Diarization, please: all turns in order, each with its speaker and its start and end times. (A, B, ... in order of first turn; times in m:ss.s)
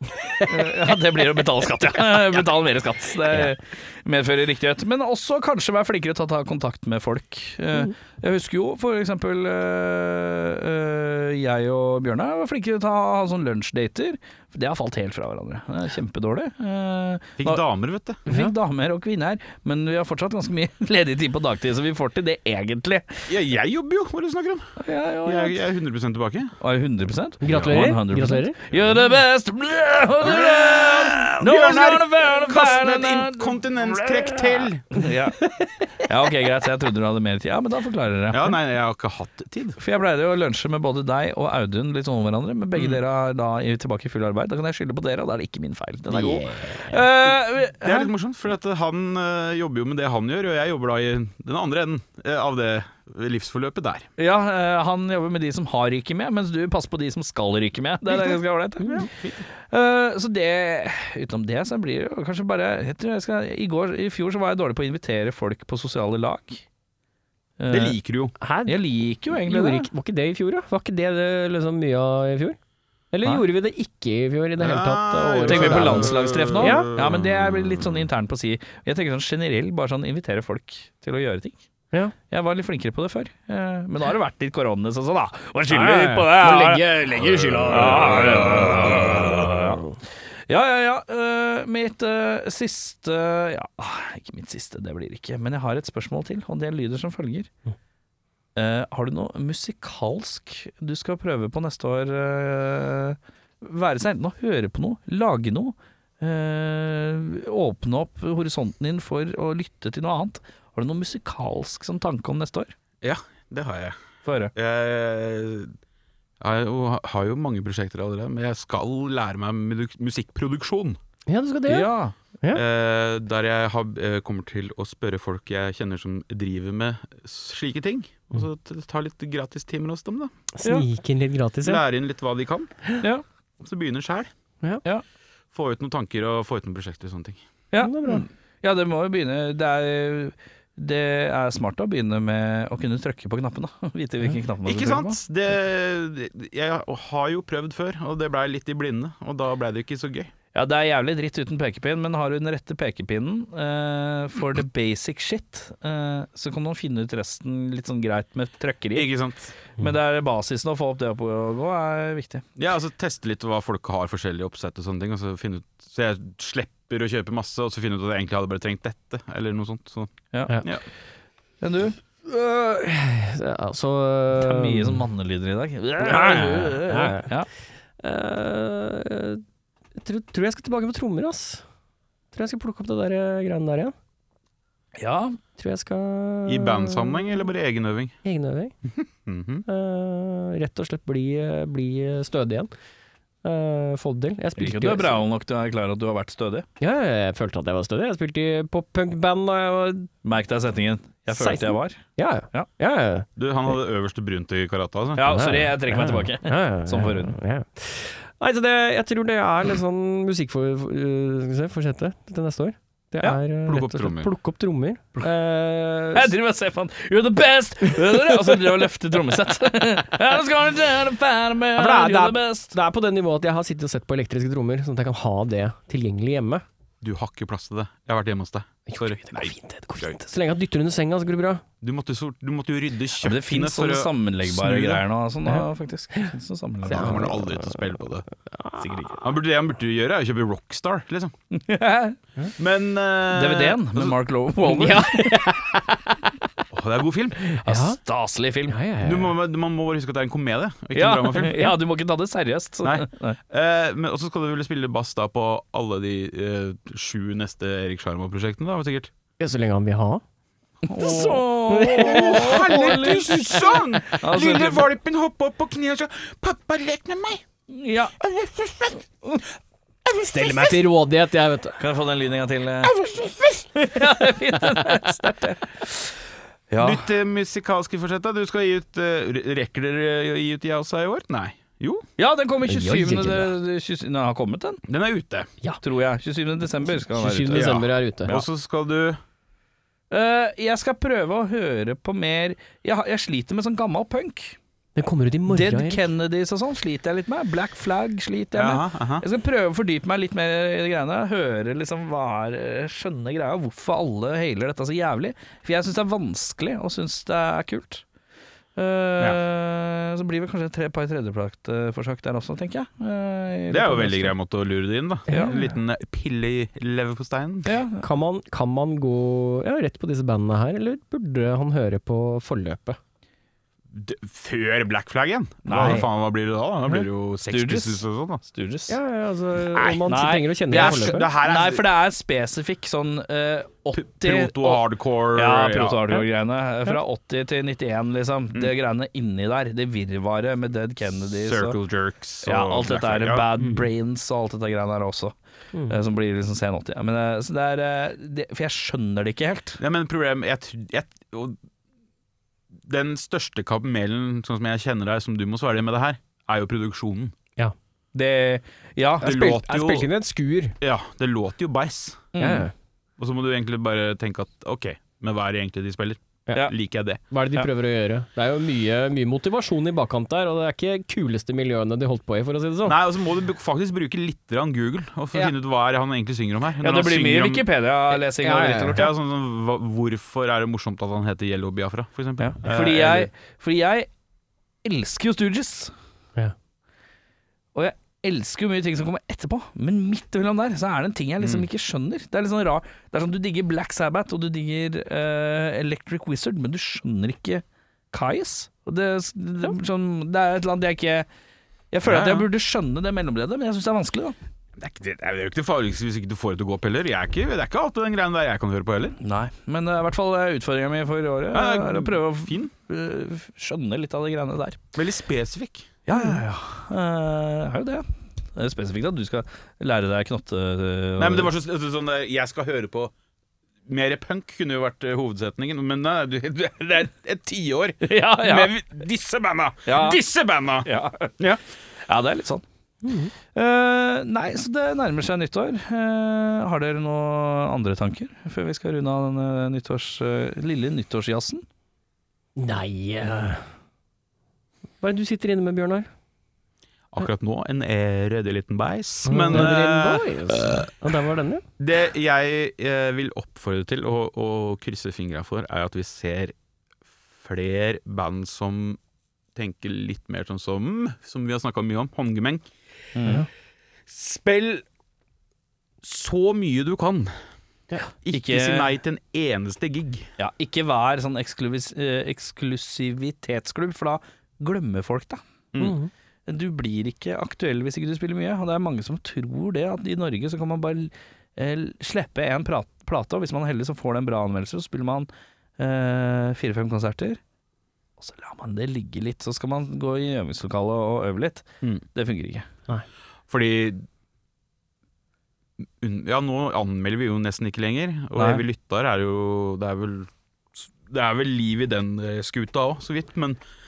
0:00.4-0:17.6 A
0:17.4-0:18.2 B
0:18.2-0:23.3 A
0:18.3-0:18.5 C
0:23.3-0:26.5 B
0:24.8-0:25.6 A
0:26.6-0:35.4 A
0:27.4-0:28.6 C
0:27.5-0:27.8 B
0:30.2-0:35.0 B
0:35.4-0:35.9 C
0:36.0-0:38.6 A
0:38.3-0:39.8 B
0:39.8-0:48.1 A
0:42.8-0:43.0 B
0:46.1-0:47.0 C
0:47.8-0:54.1 B
0:54.2-0:59.1 A
0:58.1-0:59.4 B
0:58.8-0:59.1 C
0:59.7-1:06.6 A
1:07.6-1:08.0 A
1:07.7-1:08.4 B
1:08.4-1:08.8 C
1:08.6-1:09.9 A
1:09.3-1:12.6 C
1:13.1-1:16.9 C
1:14.6-1:18.1 B
1:15.4-1:21.6 A
1:22.3-1:29.8 A
1:25.7-1:28.5 C
1:27.7-1:29.5 B
1:30.5-1:37.5 A
1:38.5-1:52.7 A
1:53.0-1:54.0 B
1:54.2-1:54.5 A
1:54.5-1:55.7 B
1:56.4-2:01.0 B
2:01.3-2:01.9 C
2:01.7-2:02.1 A
2:02.5-2:10.3 B
2:10.5-2:11.8 C
2:11.6-2:12.7 B
2:13.6-2:14.3 B
2:15.5-2:17.4 B
2:17.7-2:25.2 A
2:17.8-2:18.2 C
2:24.6-2:30.3 B
2:30.5-2:39.1 A
2:38.9-2:39.5 B
2:39.8-2:42.4 A
2:42.6-2:50.8 B
2:50.3-2:50.6 A
2:51.6-2:52.0 A
2:52.2-2:55.0 C
2:54.4-2:57.5 A
2:56.0-2:57.3 C
2:58.0-2:59.4 C
3:00.0-3:01.6 C
3:02.3-3:03.9 C
3:05.0-3:05.4 A
3:05.6-3:07.4 C
3:06.5-3:08.2 B
3:08.2-3:08.7 C
3:08.8-3:09.6 B
3:09.6-3:12.7 C
3:13.4-3:15.2 C
3:14.6-3:16.6 A
3:16.8-3:20.1 C
3:20.2-3:22.0 A
3:21.3-3:23.3 C
3:23.4-3:25.4 B
3:25.2-3:27.4 A
3:25.2-3:36.3 C
3:33.6-3:34.3 B
3:36.1-3:42.7 A
3:41.8-3:46.6 C
3:47.0-3:50.2 B
3:48.9-3:51.6 C
3:51.8-3:55.0 B
3:53.2-3:57.3 A
3:56.8-3:58.2 B
3:56.9-3:57.8 C
3:58.4-3:59.2 C
3:58.8-3:59.2 A
3:59.2-4:01.3 B
4:01.5-4:02.2 A
4:02.6-4:04.2 B
4:03.3-4:05.5 A
4:04.6-4:06.3 C
4:06.7-4:07.4 B
4:07.5-4:08.8 A
4:07.6-4:08.0 C
4:08.7-4:09.3 C
4:09.0-4:11.6 B
4:10.9-4:13.4 A
4:11.4-4:11.8 C
4:12.8-4:19.1 B
4:19.4-4:20.2 C
4:20.9-4:24.9 A
4:21.0-4:23.8 C
4:21.8-4:27.4 B
4:27.7-4:28.2 A
4:28.2-4:29.0 B
4:30.1-4:30.5 B
4:30.2-4:31.8 C
4:31.8-4:32.9 A
4:33.0-4:33.3 B
4:33.8-4:36.1 A
4:36.7-4:37.0 A
4:36.8-4:42.0 B
4:42.2-4:44.8 A
4:42.6-4:43.5 C
4:44.9-4:45.5 B
4:45.8-4:47.7 A
4:46.9-4:48.4 C
4:47.5-4:49.2 B
4:50.1-4:54.6 A
4:55.0-4:56.0 C
4:55.5-5:08.0 A
4:58.5-4:59.2 B
5:08.8-5:14.3 A
5:13.7-5:17.7 B
5:15.3-5:15.6 A
5:15.3-5:15.6 C
5:17.7-5:18.0 A
5:18.0-5:23.0 C
5:23.9-5:28.4 B
5:25.7-5:26.1 A
5:27.5-5:28.9 A
5:28.9-5:31.3 C
5:29.7-5:30.1 B
5:30.1-5:41.8 A
5:30.7-5:31.8 B
5:34.0-5:36.1 B
5:41.3-5:43.5 B
5:42.4-5:45.3 A
5:45.9-5:49.8 A
5:49.8-5:51.6 B
5:52.8-5:57.3 B
5:58.1-5:59.3 A
5:59.2-6:00.1 B
5:59.2-6:00.8 C
6:00.8-6:02.3 B
6:02.3-6:02.7 A
6:02.4-6:02.7 C
6:03.2-6:07.2 B
6:07.3-6:13.0 C
6:12.8-6:17.7 B
6:16.8-6:19.1 A
6:18.1-6:19.1 C
6:19.0-6:23.3 B
6:22.4-6:24.1 A
6:24.8-6:25.9 A
6:27.8-6:41.3 A
6:31.4-6:31.7 B
6:41.9-6:44.4 A
6:42.0-6:42.5 B
6:44.8-6:49.2 B
6:49.2-6:54.8 A
6:51.5-6:52.7 B
6:55.0-6:55.9 B
6:56.0-7:01.5 A
7:01.2-7:03.1 B
7:03.8-7:11.6 B
7:08.0-7:08.7 A
7:09.9-7:10.2 A
7:10.8-7:11.3 A
7:12.0-7:12.6 A
7:13.0-7:13.3 C
7:13.5-7:21.6 A
7:22.6-7:23.7 C
7:25.0-7:26.1 C
7:27.1-7:30.9 B
7:29.2-7:31.6 C
7:31.8-7:36.5 B
7:37.4-7:39.0 B
7:39.5-7:42.7 B
7:43.2-7:43.4 A
7:44.1-7:44.8 B
7:46.0-7:47.3 B
7:48.2-7:50.3 B
7:48.3-7:48.9 A
7:50.4-7:55.4 A
7:55.8-7:56.1 C
7:56.5-8:07.4 A
8:08.2-8:12.6 A
8:13.5-8:14.0 B
8:15.8-8:23.6 B
8:18.4-8:18.6 A